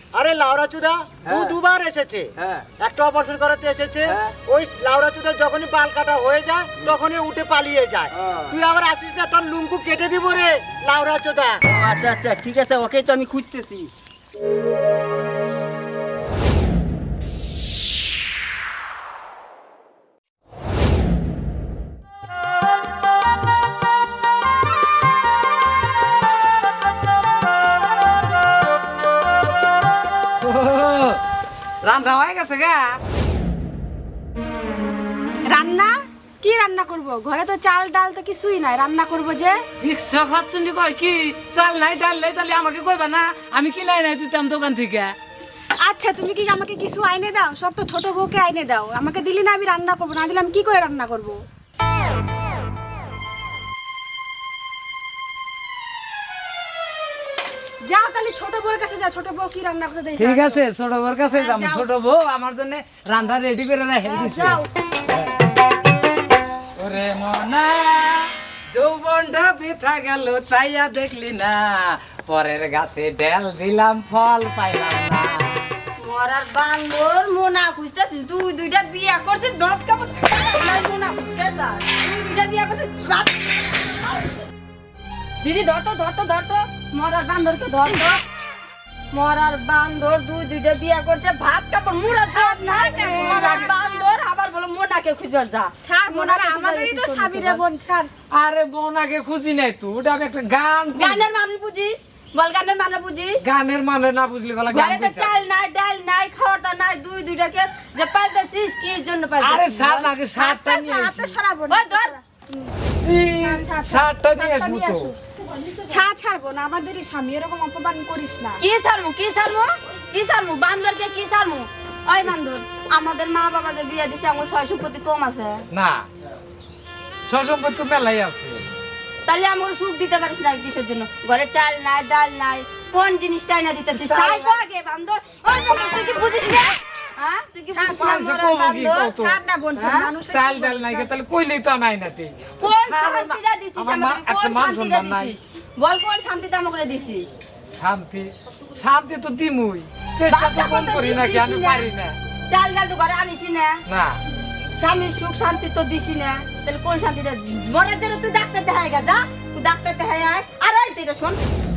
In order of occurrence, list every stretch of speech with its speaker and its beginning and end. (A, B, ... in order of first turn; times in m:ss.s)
0:00.1-0:11.6 A
0:01.2-0:01.6 B
0:02.4-0:02.7 B
0:04.1-0:04.4 B
0:08.1-0:08.6 B
0:11.6-0:13.9 B
0:30.4-0:31.2 C
0:31.8-0:33.0 C
0:35.5-0:39.6 D
0:39.8-0:45.2 C
0:45.8-0:51.4 D
0:57.8-1:00.6 D
1:00.2-1:05.4 C
1:01.3-1:01.9 D
1:04.0-1:04.7 D
1:06.8-1:15.6 C
1:16.0-1:24.0 E
1:25.4-1:28.2 E
1:29.1-1:37.6 E
1:32.1-1:34.3 D
1:33.0-1:33.7 C
1:35.8-1:38.1 D
1:38.3-1:41.3 C
1:41.0-1:43.4 E
1:43.4-1:45.3 C
1:44.7-1:50.1 E
1:49.4-1:51.4 C
1:50.3-1:55.2 D
1:51.7-1:52.2 E
1:53.0-1:55.1 C
1:55.7-1:58.6 D
1:58.6-2:05.6 E
2:05.7-2:06.1 C
2:07.3-2:08.7 C
2:09.2-2:19.1 E
2:13.9-2:14.6 C
2:17.7-2:18.1 D
2:17.9-2:19.4 C
2:18.9-2:21.1 D
2:19.8-2:20.1 E
2:20.3-2:25.4 C
2:22.6-2:27.3 E
2:27.8-2:32.2 C
2:30.3-2:31.9 E
2:32.5-2:33.8 E
2:33.9-2:34.2 C
2:34.8-2:41.4 E